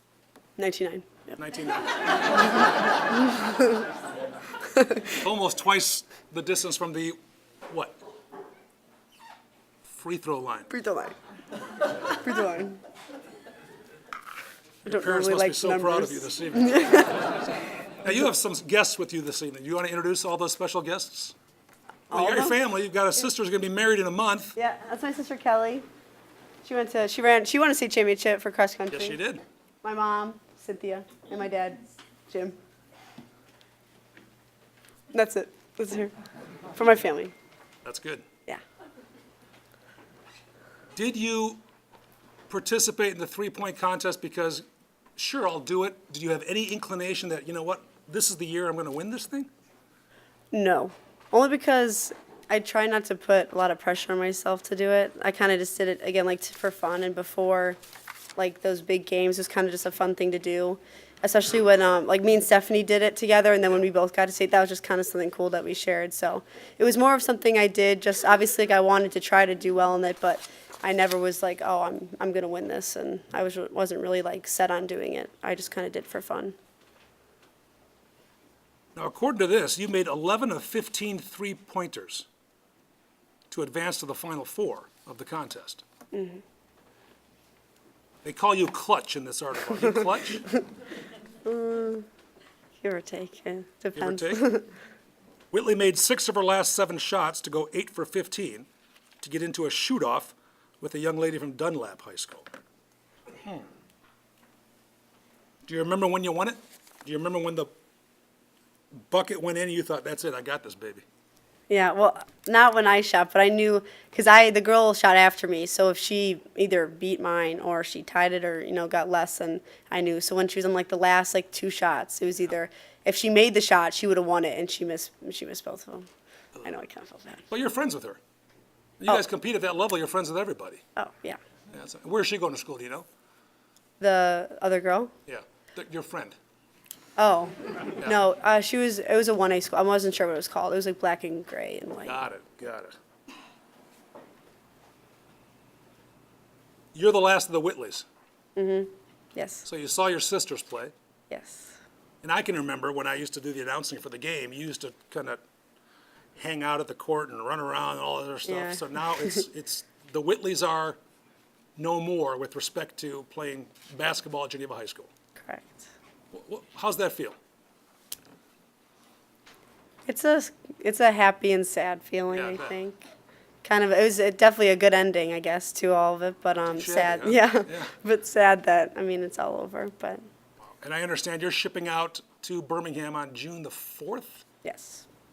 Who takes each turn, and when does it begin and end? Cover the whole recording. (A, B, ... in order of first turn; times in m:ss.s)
0:00.6-0:01.4 A
0:01.4-0:01.9 B
0:03.0-0:03.9 A
0:04.6-0:05.2 A
0:05.2-0:07.2 B
0:07.7-0:08.0 B
0:09.9-0:10.7 B
0:10.7-0:11.2 A
0:11.8-0:12.8 A
0:14.8-0:17.3 B
0:14.8-0:17.4 A
0:18.0-0:21.3 B
0:22.1-0:22.6 A
0:22.1-0:24.6 B
0:24.6-0:25.8 A
0:26.6-0:29.2 A
0:28.9-0:29.4 B
0:29.8-0:32.6 A
0:35.1-0:36.1 A
0:36.7-0:37.3 A
0:37.8-0:38.2 B
0:40.9-0:41.6 B
0:42.5-0:44.6 B
0:45.2-0:49.5 B
0:50.5-0:57.8 A
0:58.4-1:16.5 A
1:19.0-1:22.2 B
1:23.5-1:25.8 B
1:26.1-1:26.4 A
1:28.2-1:30.5 B
1:31.4-1:32.0 A
1:32.8-1:34.7 A
1:34.0-1:34.4 B
1:35.5-1:38.7 B
1:39.2-1:42.5 B
1:45.6-1:47.7 B
1:49.1-1:51.0 B
1:51.7-2:06.1 A
2:06.6-2:07.4 A
2:07.5-2:08.2 B
2:09.0-2:10.8 B
2:11.0-2:11.4 A
2:11.7-2:13.0 B
2:14.0-2:15.1 A
2:15.3-2:16.4 B
2:17.2-2:22.2 A
2:22.0-2:23.0 B
2:26.9-2:28.0 B
2:28.6-2:29.6 A
2:29.6-2:30.9 B
2:31.3-2:31.8 A
2:32.2-2:35.4 B
2:36.4-2:41.0 B
2:38.4-2:39.4 A
2:41.8-2:45.1 B
2:45.4-2:45.9 A
2:46.3-2:47.4 B
2:50.1-2:53.0 A
2:52.3-2:52.7 B
2:53.6-3:00.3 A
2:56.7-2:57.9 B
3:00.7-3:04.4 B
3:04.6-3:05.0 A